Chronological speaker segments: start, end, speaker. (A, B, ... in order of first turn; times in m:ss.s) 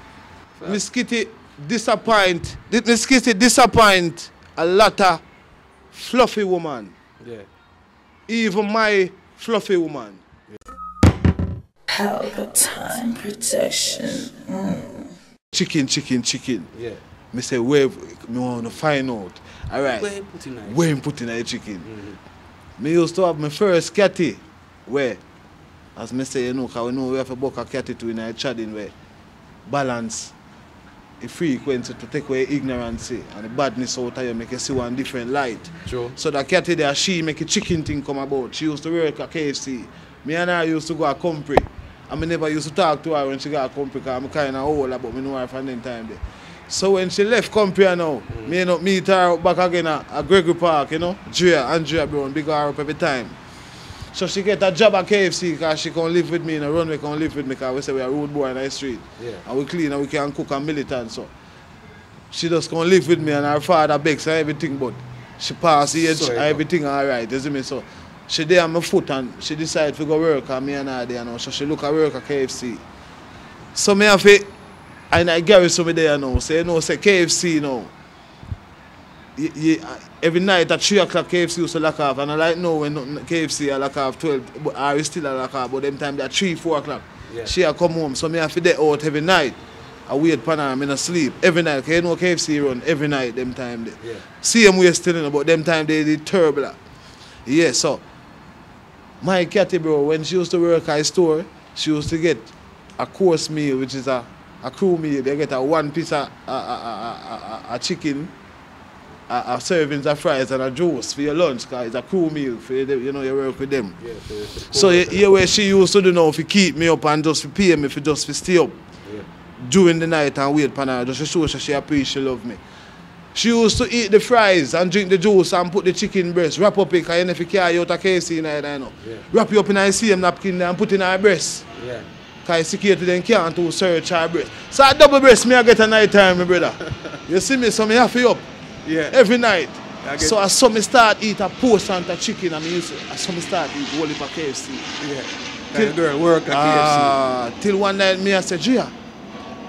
0:00.5-0:00.8 A
0:00.6-0:05.2 B
0:05.9-0:06.9 B
0:07.2-0:07.5 A
0:08.3-0:10.2 B
0:11.9-0:15.1 C
0:15.5-0:16.7 B
0:16.7-0:17.0 A
0:17.3-0:20.1 B
0:19.8-0:20.9 A
0:20.6-0:21.9 B
0:21.8-0:22.2 A
0:22.8-0:25.2 B
0:26.0-0:28.9 B
0:29.6-0:30.3 B
0:31.2-0:53.4 B
0:35.8-0:36.1 A
0:48.3-0:48.6 A
0:54.1-1:01.3 B
0:59.2-0:59.4 A
1:02.3-1:12.8 B
1:06.0-1:06.6 A
1:13.7-1:14.5 B
1:15.1-1:17.9 B
1:19.4-1:36.8 B
1:27.3-1:27.5 A
1:34.0-1:34.2 A
1:37.4-1:38.0 B
1:39.2-1:48.3 B
1:49.3-1:54.0 B
1:54.0-1:55.3 A
1:54.7-1:58.8 B
1:59.6-2:02.6 B
2:03.3-2:11.6 B
2:11.8-2:12.1 A
2:12.4-2:18.5 B
2:16.8-2:17.2 A
2:18.8-2:19.2 A
2:19.1-2:24.9 B
2:20.0-2:20.4 A
2:25.0-2:27.2 A
2:26.5-2:28.9 B